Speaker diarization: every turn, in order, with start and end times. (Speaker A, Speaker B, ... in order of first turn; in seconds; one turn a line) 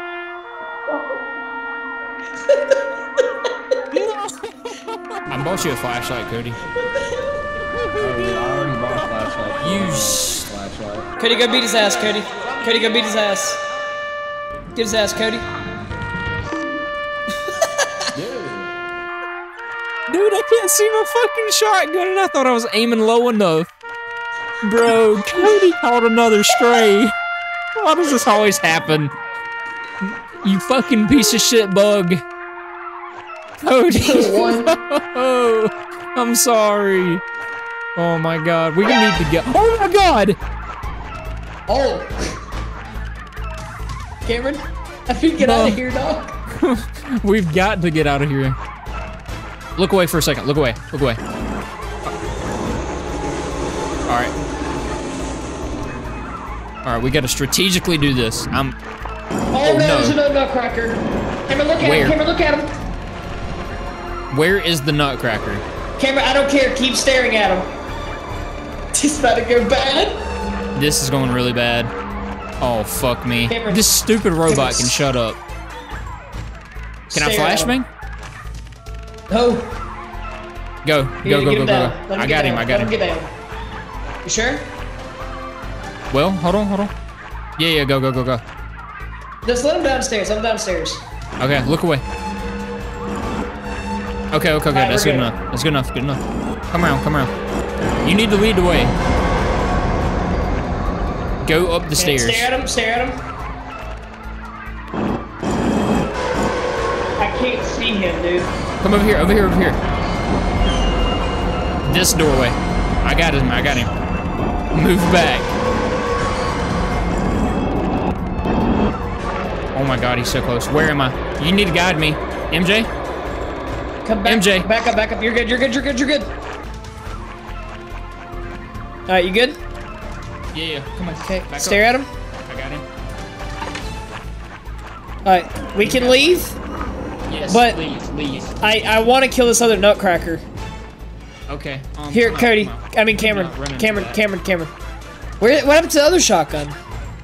Speaker A: 3.9-6.6
Speaker B: 8.0-11.1
Speaker A: 9.6-10.5
Speaker C: 11.2-13.6
Speaker C: 14.7-15.4
Speaker C: 17.6-18.0
Speaker B: 18.1-18.7
Speaker A: 20.1-23.7
Speaker A: 24.6-27.1
Speaker C: 25.4-25.6
Speaker A: 27.8-29.1
Speaker A: 30.0-32.2
Speaker A: 33.6-37.2
Speaker C: 33.9-34.7
Speaker A: 38.0-40.4
Speaker C: 41.7-42.4
Speaker C: 44.2-46.3
Speaker A: 45.4-45.8
Speaker A: 46.5-48.6
Speaker A: 49.8-51.2
Speaker A: 54.1-54.3
Speaker A: 56.8-58.8
Speaker C: 59.5-62.7
Speaker A: 59.6-60.2
Speaker A: 61.8-62.1
Speaker A: 64.3-65.6
Speaker C: 66.0-67.7
Speaker C: 68.9-70.2
Speaker A: 70.7-71.9
Speaker A: 72.6-75.4
Speaker C: 73.5-73.9
Speaker C: 74.4-75.0
Speaker C: 77.1-77.7
Speaker A: 77.1-77.8
Speaker C: 79.3-79.7
Speaker A: 80.8-82.9
Speaker C: 81.2-83.3
Speaker C: 84.2-84.6
Speaker A: 86.1-86.9
Speaker A: 87.6-88.4
Speaker C: 89.4-91.0
Speaker A: 91.4-92.0
Speaker A: 94.3-97.3
Speaker C: 94.7-95.3
Speaker A: 98.0-98.9
Speaker A: 101.4-102.5
Speaker C: 102.0-103.2
Speaker C: 107.2-108.5
Speaker A: 108.8-109.8
Speaker A: 111.8-113.9
Speaker A: 114.7-115.5
Speaker A: 119.7-122.9
Speaker C: 124.0-126.3
Speaker A: 124.2-124.7
Speaker C: 129.1-129.6
Speaker A: 130.5-131.9
Speaker C: 131.2-132.1
Speaker A: 132.5-132.8
Speaker C: 135.2-136.5
Speaker A: 135.8-136.4
Speaker A: 137.3-138.6
Speaker C: 137.5-137.8
Speaker C: 138.6-140.4
Speaker A: 141.5-144.2
Speaker C: 142.1-144.7
Speaker C: 145.4-146.8